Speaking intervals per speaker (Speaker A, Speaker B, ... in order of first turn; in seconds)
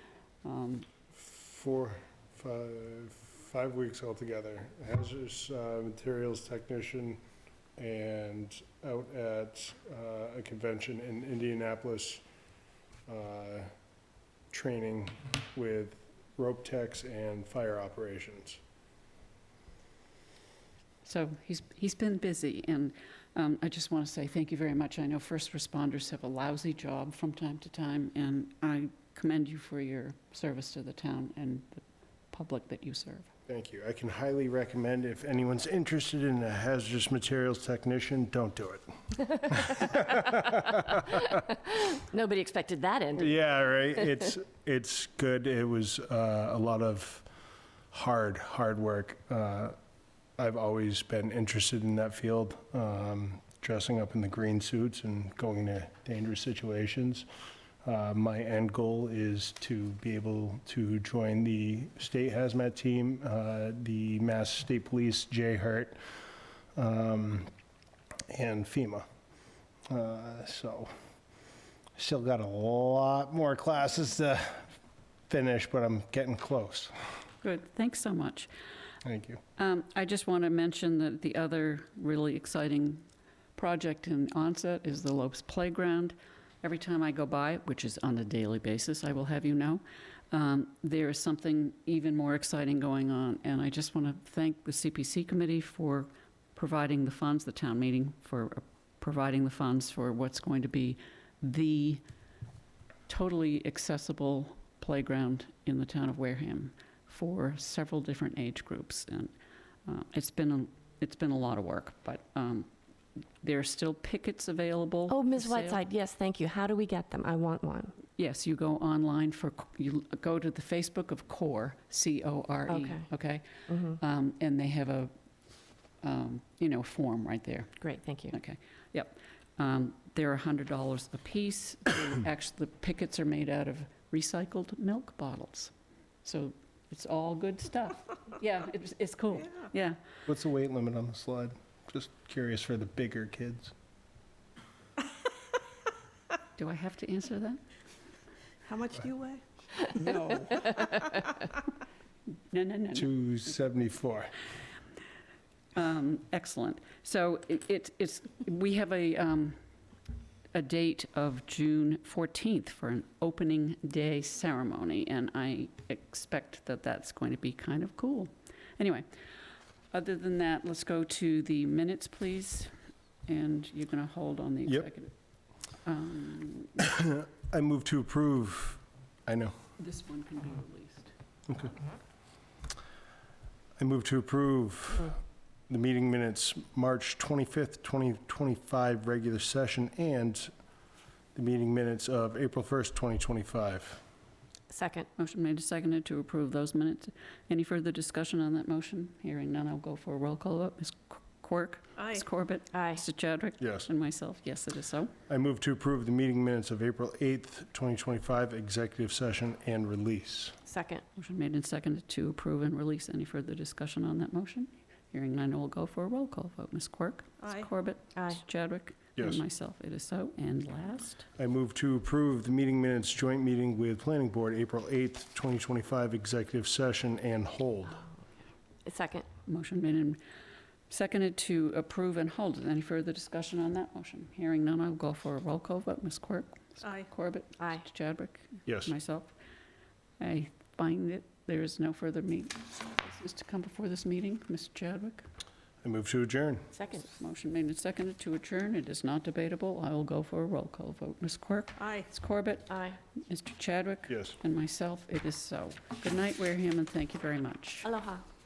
Speaker A: 0.4-0.9, 21.0-33.3, 77.4-78.5, 79.6-83.0, 83.5-102.0, 103.1-109.3, 109.8-112.7, 113.4-115.8, 118.2-125.1, 126.0-135.7, 136.2-140.0, 146.6-147.6, 152.5-153.1, 155.7-159.6, 160.5-169.1, 169.9-172.7, 173.3-175.1, 175.8-176.8, 179.8-181.1, 195.2-205.1, 211.1-221.2, 229.5-230.2, 230.9-239.3, 240.2-245.2, 246.9-257.9
Speaker B: 1.1-7.2, 7.8-12.2, 13.1-13.7, 14.5-18.6, 33.5-41.3, 43.1-47.2, 47.9-49.7, 50.4-57.2, 57.8-66.0, 66.7-67.5, 68.3-69.0, 69.9-70.9, 72.0-74.7, 75.3-76.9, 79.0-79.4, 140.3-143.7, 152.9-154.3, 176.8-179.5, 181.5-181.7, 183.8-190.5, 191.3-194.0, 203.6-203.9, 205.3-210.6, 219.2-219.4, 221.4-228.0, 238.7-238.9, 245.8-246.7, 254.1-254.4
Speaker C: 41.0-43.3, 115.1-117.9, 122.7-123.0, 123.7-124.0, 127.8-128.3, 194.7-195.1, 202.7-203.0, 210.7-211.0, 228.8-229.2, 237.6-237.8, 246.7-247.0, 252.7-253.0, 257.8-258.2
Speaker D: 148.6-151.4, 202.0-202.2, 217.4-217.7, 236.8-237.1, 251.8-252.1